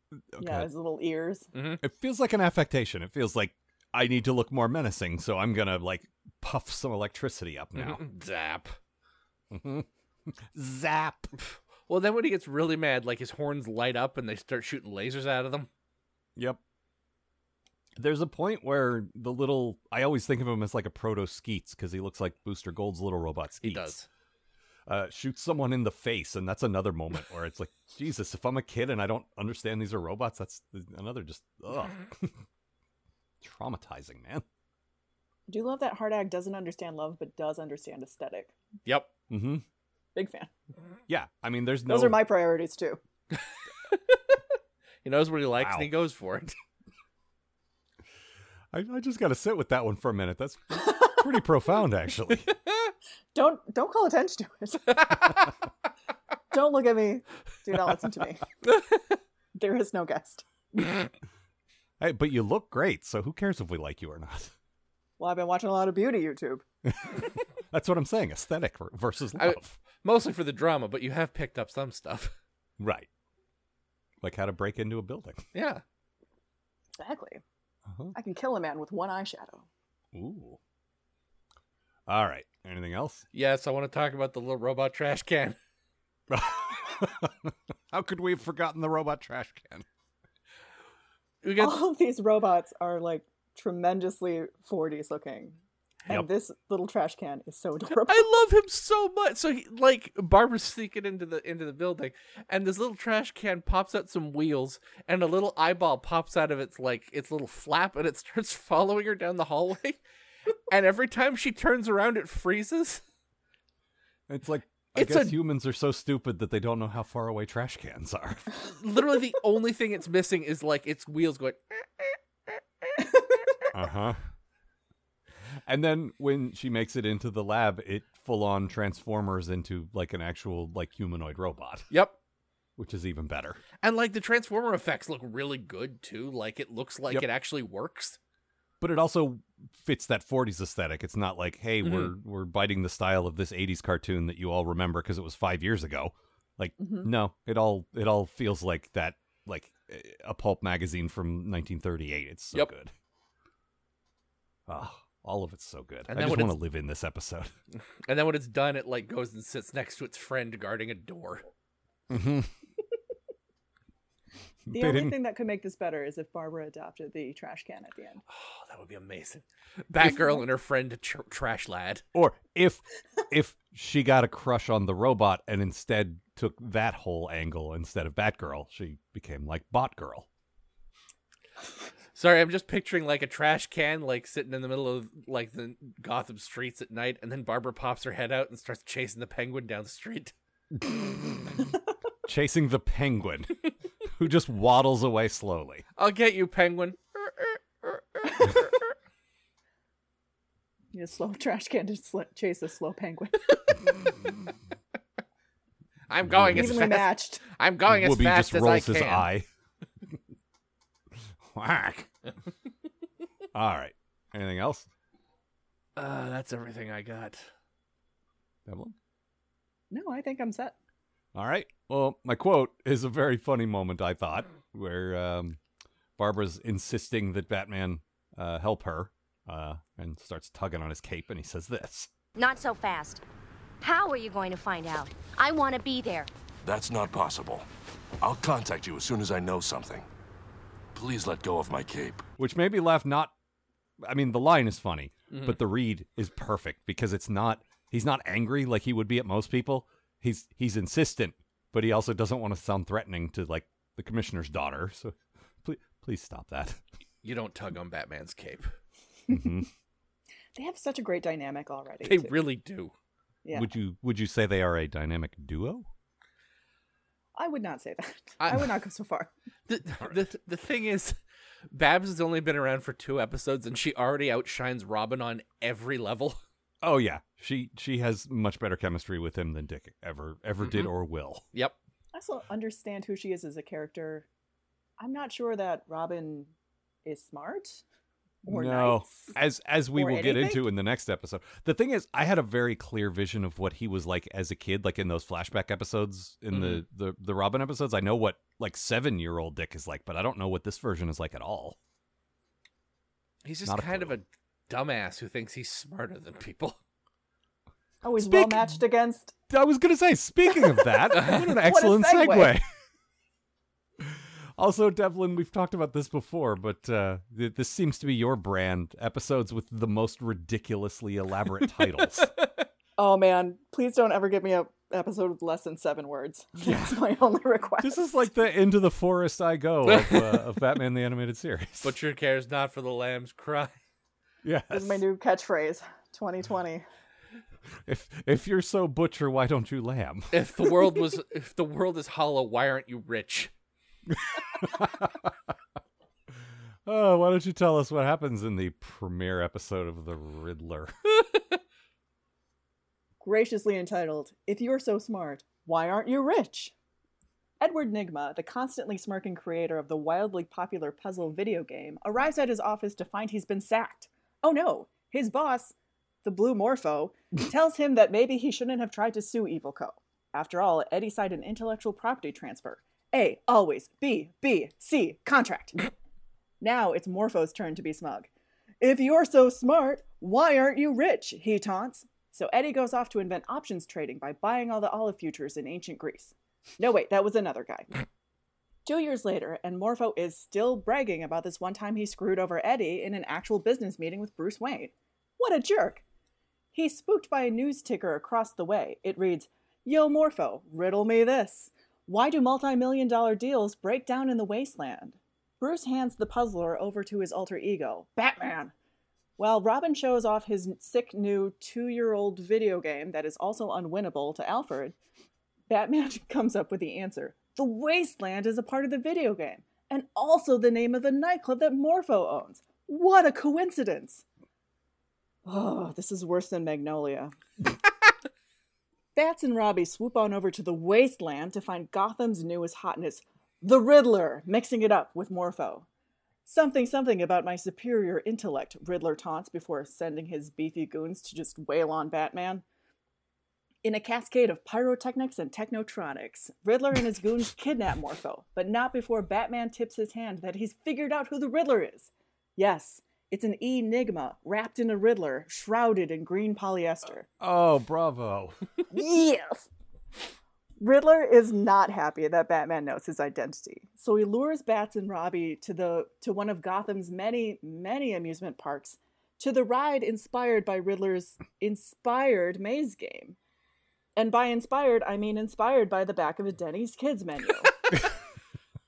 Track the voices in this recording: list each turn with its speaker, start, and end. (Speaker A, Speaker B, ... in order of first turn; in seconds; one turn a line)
Speaker A: 0.3-0.7
Speaker B: 0.4-1.5
Speaker C: 1.5-1.8
Speaker A: 1.8-8.0
Speaker C: 7.8-8.8
Speaker A: 9.5-11.3
Speaker C: 11.9-15.7
Speaker A: 18.0-24.0
Speaker C: 23.6-24.1
Speaker A: 24.9-32.4
Speaker A: 33.4-34.4
Speaker B: 35.5-38.5
Speaker A: 39.3-39.6
Speaker B: 40.1-40.5
Speaker A: 41.1-42.2
Speaker B: 41.9-43.0
Speaker C: 43.3-44.4
Speaker C: 45.0-46.5
Speaker A: 45.6-45.9
Speaker A: 48.7-52.5
Speaker B: 53.3-55.3
Speaker B: 56.5-58.4
Speaker B: 59.5-60.4
Speaker A: 62.0-64.5
Speaker B: 65.2-66.6
Speaker A: 66.9-69.8
Speaker C: 69.4-72.3
Speaker A: 72.8-73.1
Speaker A: 74.2-75.4
Speaker C: 75.5-75.8
Speaker B: 77.0-77.4
Speaker A: 77.9-78.1
Speaker B: 78.1-79.7
Speaker A: 80.1-80.6
Speaker A: 82.1-83.2
Speaker C: 83.3-85.6
Speaker A: 86.3-89.8
Speaker C: 91.4-91.8
Speaker B: 91.6-95.6
Speaker B: 96.1-98.3
Speaker C: 98.0-110.0
Speaker C: 110.7-113.0
Speaker A: 114.3-118.5
Speaker C: 114.9-115.4
Speaker C: 118.7-122.1
Speaker A: 123.7-124.2
Speaker A: 125.7-131.9
Speaker C: 131.9-132.2
Speaker A: 132.8-133.6
Speaker C: 133.8-138.2
Speaker A: 138.8-152.9
Speaker C: 141.8-142.1
Speaker B: 146.8-147.1
Speaker A: 154.7-157.5
Speaker C: 156.1-156.6
Speaker C: 158.0-161.5
Speaker A: 162.1-162.5
Speaker A: 164.7-165.2
Speaker B: 164.7-168.2
Speaker C: 168.3-172.0
Speaker B: 170.1-170.4
Speaker A: 172.1-180.3
Speaker C: 182.1-190.3
Speaker A: 190.8-191.5
Speaker A: 192.2-193.6
Speaker A: 194.1-195.8
Speaker C: 196.0-198.8
Speaker B: 200.9-203.8
Speaker C: 206.1-209.3
Speaker A: 206.2-206.9
Speaker B: 206.5-207.4
Speaker A: 207.9-209.5
Speaker A: 211.5-212.1
Speaker A: 213.5-214.9
Speaker C: 215.9-217.4
Speaker A: 218.7-218.9
Speaker B: 219.9-220.7
Speaker A: 221.3-225.6
Speaker A: 226.2-232.1
Speaker D: 232.3-233.2
Speaker D: 233.8-236.3
Speaker E: 236.6-237.7
Speaker E: 238.2-240.1
Speaker E: 240.9-242.2
Speaker A: 242.4-243.3
Speaker A: 244.0-256.8
Speaker C: 245.3-245.6
Speaker C: 257.2-258.7
Speaker A: 259.3-259.7
Speaker B: 260.5-262.4
Speaker C: 262.0-262.9
Speaker B: 263.4-263.7
Speaker A: 263.5-265.9
Speaker B: 267.3-269.3
Speaker C: 268.4-268.7
Speaker C: 269.7-271.1
Speaker C: 271.7-276.4
Speaker A: 276.8-281.4
Speaker C: 280.6-280.9
Speaker B: 282.1-284.2
Speaker B: 285.0-286.5
Speaker B: 287.0-287.8
Speaker B: 288.4-289.3
Speaker A: 288.5-301.8
Speaker B: 289.9-290.7
Speaker C: 296.5-296.8
Speaker C: 303.4-306.8
Speaker A: 303.6-304.1
Speaker B: 308.0-309.3
Speaker A: 308.2-308.8
Speaker A: 309.5-312.6
Speaker B: 311.2-312.5
Speaker A: 314.0-322.3
Speaker C: 322.2-322.6
Speaker B: 323.0-328.1
Speaker A: 326.6-327.0
Speaker A: 327.8-331.9
Speaker C: 329.9-330.4
Speaker C: 331.8-333.7
Speaker A: 334.4-335.0
Speaker B: 334.7-336.8
Speaker A: 337.8-340.4
Speaker C: 340.3-343.5
Speaker A: 344.1-345.3
Speaker A: 346.9-350.9
Speaker B: 353.2-356.7
Speaker B: 357.6-375.9
Speaker B: 376.6-378.3
Speaker B: 378.8-387.9
Speaker B: 388.9-396.0
Speaker B: 396.7-408.7
Speaker B: 409.4-414.9
Speaker B: 415.7-424.2
Speaker B: 425.4-427.3
Speaker B: 429.1-435.9
Speaker B: 436.4-442.6
Speaker B: 443.8-457.2
Speaker A: 457.4-458.6
Speaker B: 458.9-459.7
Speaker B: 460.8-473.4
Speaker B: 474.1-477.7